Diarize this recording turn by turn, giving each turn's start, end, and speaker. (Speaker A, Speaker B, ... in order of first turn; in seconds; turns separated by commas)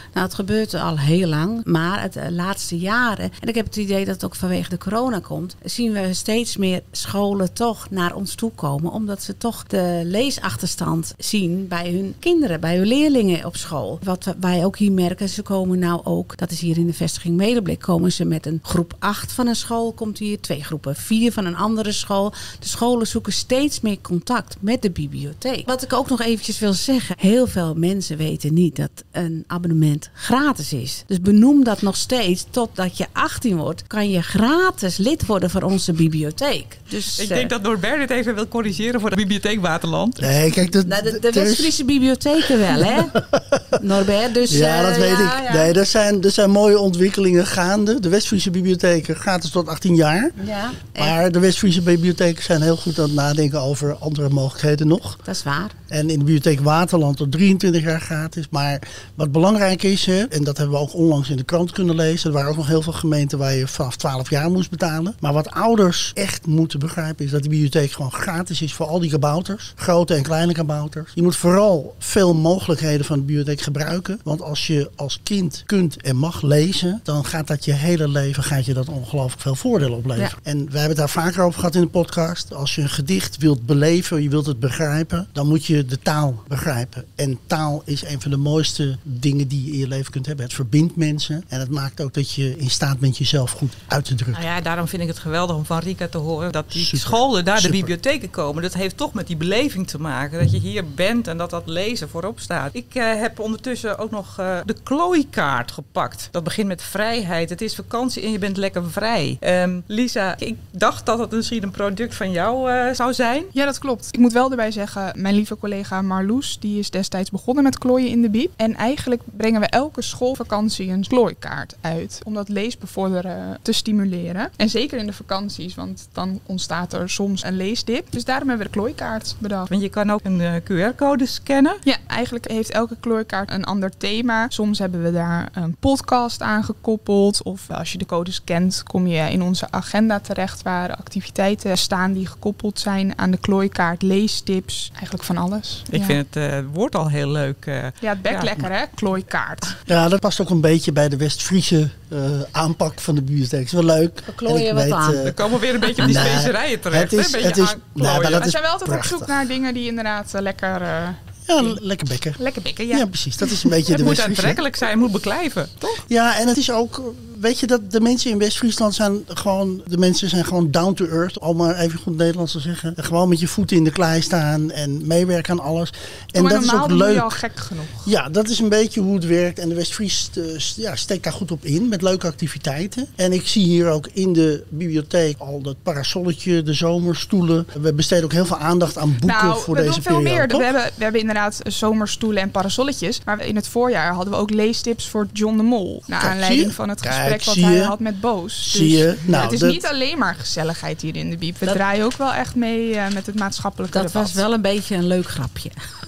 Speaker A: 0.1-37.5, Speaker B: 37.2-40.3, Speaker C: 40.2-41.8, Speaker A: 40.9-43.2, Speaker C: 42.7-43.8, Speaker A: 43.7-45.7, Speaker C: 44.5-50.4, Speaker A: 50.4-51.2, Speaker C: 51.0-55.2, Speaker A: 55.2-55.8, Speaker C: 55.9-94.4, Speaker B: 94.3-113.5, Speaker C: 96.7-97.9, Speaker D: 113.5-129.7, Speaker B: 129.7-131.8, Speaker D: 131.8-146.2, Speaker B: 145.9-148.7, Speaker D: 148.0-149.8, Speaker C: 149.9-155.4, Speaker A: 154.3-155.3, Speaker B: 155.2-158.5, Speaker C: 156.0-159.4, Speaker D: 158.1-161.8, Speaker C: 161.5-164.6, Speaker D: 162.4-163.7, Speaker B: 163.9-166.0, Speaker C: 166.1-177.4, Speaker D: 176.3-178.1, Speaker C: 178.0-190.7, Speaker D: 189.2-204.4, Speaker C: 196.1-197.9, Speaker C: 198.6-199.8, Speaker A: 203.9-205.8